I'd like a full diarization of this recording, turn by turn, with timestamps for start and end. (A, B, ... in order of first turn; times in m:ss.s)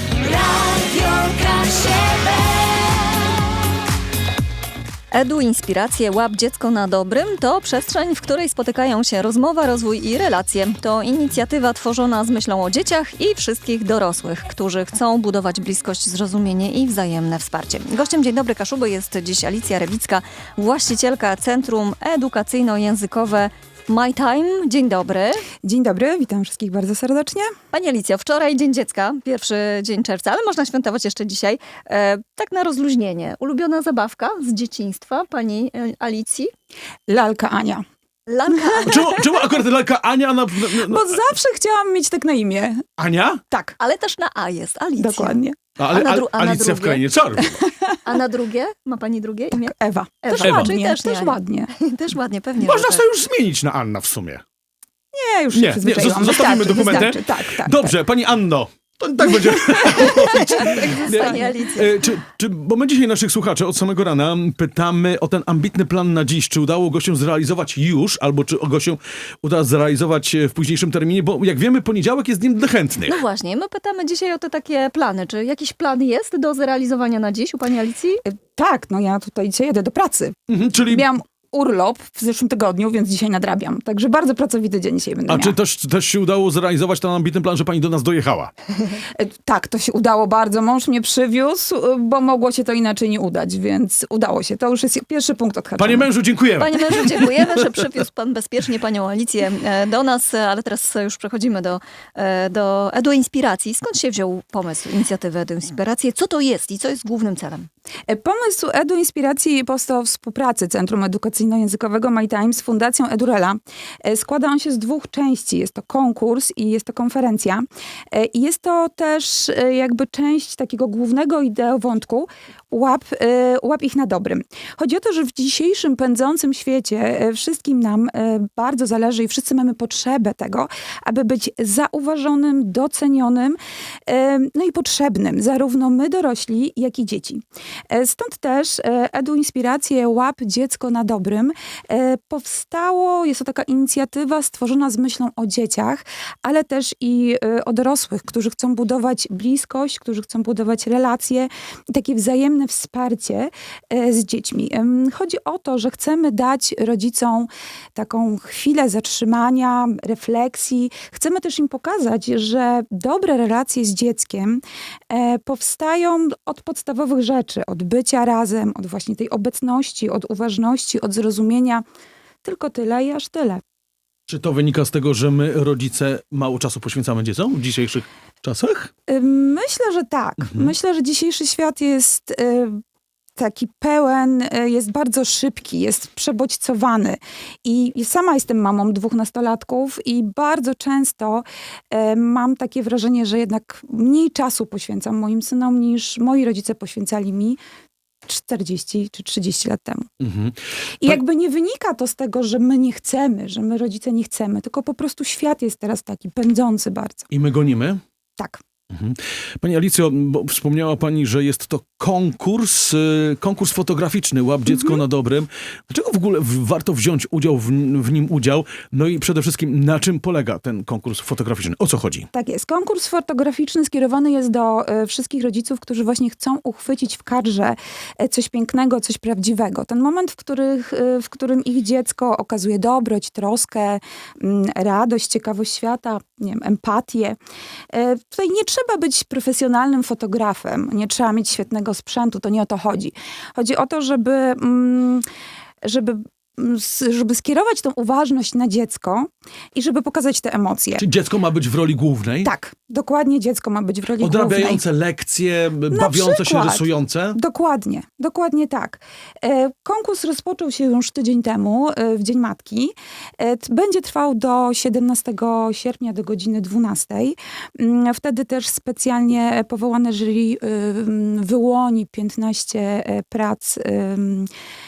0:00.2-0:02.7 A
0:05.1-0:25.5 A
0:25.6-0:27.5 B
0:27.7-0:36.5 A
0:37.1-0:37.8 B
0:38.3-0:39.1 A
0:38.5-0:39.4 B
0:38.8-0:41.2 C
0:40.6-0:42.8 B
0:43.0-0:43.4 C
0:43.5-0:43.8 B
0:43.8-0:45.4 A
0:45.0-0:45.6 B
0:45.8-0:47.6 C
0:45.9-0:47.0 A
0:47.4-0:47.7 B
0:48.0-0:53.1 A
0:49.5-0:51.7 B
0:50.3-0:50.8 C
0:52.6-0:54.4 C
0:55.1-0:57.9 B
0:55.5-1:13.2 C
0:59.3-1:01.4 B
1:00.6-1:02.0 A
1:13.0-1:18.2 A
1:18.2-1:20.4 B
1:20.5-1:21.0 C
1:20.9-1:25.6 B
1:25.3-1:28.5 C
1:29.1-1:36.1 B
1:35.8-1:37.7 C
1:36.6-1:47.7 A
1:48.1-2:51.8 B
2:52.4-2:53.6 B
2:54.3-2:58.9 C
2:59.1-3:02.8 B
3:00.4-3:00.7 C
3:03.4-3:17.6 B
3:18.3-3:20.1 B
3:20.2-3:21.2 C
3:21.0-3:27.3 B
3:27.3-3:28.0 C
3:28.9-3:42.3 C
3:34.7-3:35.0 B
3:42.3-3:57.4 B
3:57.9-4:05.2 B
4:05.8-4:11.0 B
4:11.0-4:12.5 C
4:12.4-4:14.8 B
4:14.2-4:17.4 C
4:15.9-4:34.5 B